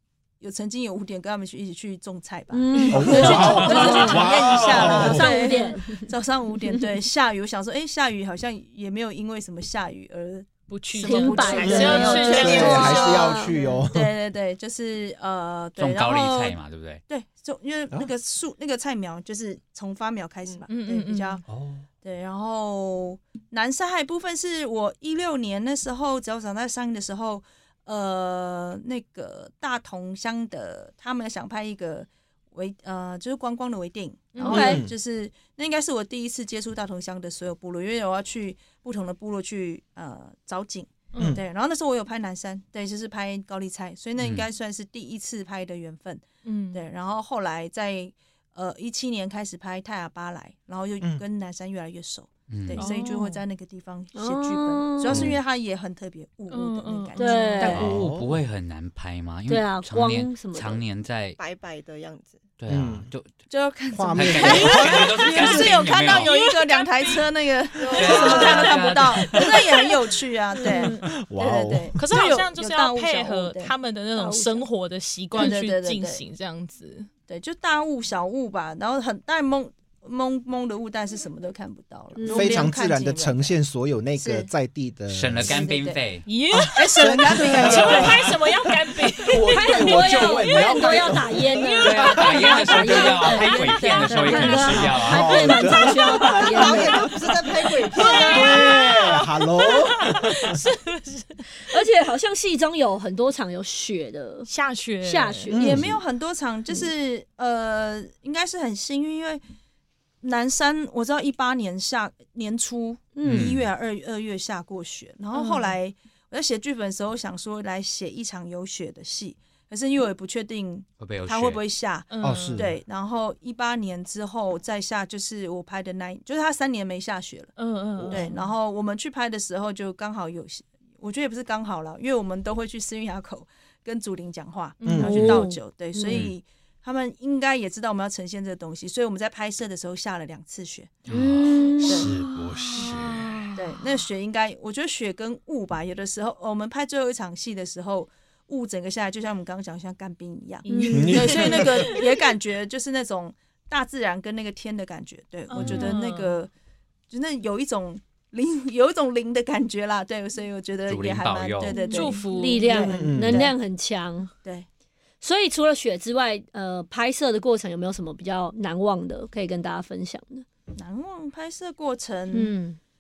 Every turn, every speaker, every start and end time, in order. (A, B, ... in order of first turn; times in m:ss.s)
0:00.4-0:12.8 A
0:02.5-0:06.1 B
0:02.9-0:05.4 C
0:03.0-0:04.3 D
0:05.1-0:05.5 D
0:10.7-0:13.6 D
0:11.0-0:13.5 B
0:11.6-0:14.1 C
0:12.0-0:13.4 E
0:13.9-0:16.6 A
0:15.8-0:17.0 F
0:17.1-0:21.4 A
0:20.7-0:21.4 D
0:21.5-0:21.8 C
0:22.0-0:58.0 A
0:34.3-0:34.8 D
0:34.4-0:34.8 B
0:34.5-0:34.9 C
0:41.1-0:41.4 D
0:44.2-0:44.5 F
0:46.4-0:46.8 D
0:52.5-0:52.9 F
0:52.8-0:53.4 D
0:54.2-0:55.2 B
0:55.1-0:55.4 F
0:56.5-0:57.8 D
0:57.2-0:57.9 B
0:57.7-1:01.4 F
0:57.7-0:58.4 C
0:59.5-1:00.8 B
1:01.4-1:02.4 E
1:02.6-1:03.3 F
1:02.7-1:03.1 C
1:03.5-1:13.7 A
1:03.9-1:05.6 C
1:04.1-1:06.4 F
1:04.7-1:07.3 D
1:07.8-1:08.7 E
1:07.9-1:09.9 D
1:07.9-1:09.7 F
1:10.6-1:11.0 D
1:11.2-1:12.0 C
1:12.0-1:17.1 D
1:14.2-1:14.6 B
1:15.3-1:16.2 A
1:17.3-1:23.5 A
1:22.2-1:22.7 B
1:22.3-1:25.7 C
1:24.2-1:24.5 A
1:25.1-1:26.3 F
1:25.4-1:26.2 A
1:26.2-1:30.9 D
1:26.5-1:28.4 C
1:26.7-1:28.2 A
1:27.6-1:28.4 F
1:29.0-1:33.4 C
1:29.5-1:37.0 B
1:31.6-1:35.8 D
1:31.8-1:35.5 F
1:34.9-1:37.1 C
1:36.4-1:38.6 E
1:37.7-1:41.5 D
1:38.3-1:40.6 C
1:41.6-1:44.5 B
1:44.5-1:45.5 D
1:45.0-1:45.6 B
1:45.5-1:46.0 C
1:45.6-1:49.4 A
1:50.2-2:07.5 A
1:53.2-1:53.5 B
1:53.2-1:53.7 F
1:55.3-1:55.8 D
2:01.0-2:01.6 F
2:02.1-2:02.7 D
2:02.2-2:02.8 C
2:07.6-2:08.4 D
2:08.1-2:20.9 A
2:14.8-2:15.4 D
2:14.8-2:15.4 C
2:15.0-2:16.2 B
2:21.1-2:23.2 F
2:21.1-2:22.1 B
2:21.9-2:22.1 A
2:21.9-2:23.2 C
2:22.7-2:23.8 D
2:23.6-2:36.5 A
2:30.7-2:32.0 D
2:30.7-2:31.5 B
2:30.9-2:31.9 C
2:35.5-2:36.4 D
2:35.6-2:35.9 F
2:37.1-2:43.6 A
2:40.9-2:41.9 F
2:41.6-2:42.9 D
2:41.8-2:44.3 B
2:42.7-2:43.5 C
2:45.2-2:50.4 B
2:50.8-2:52.5 A
2:52.3-2:52.8 B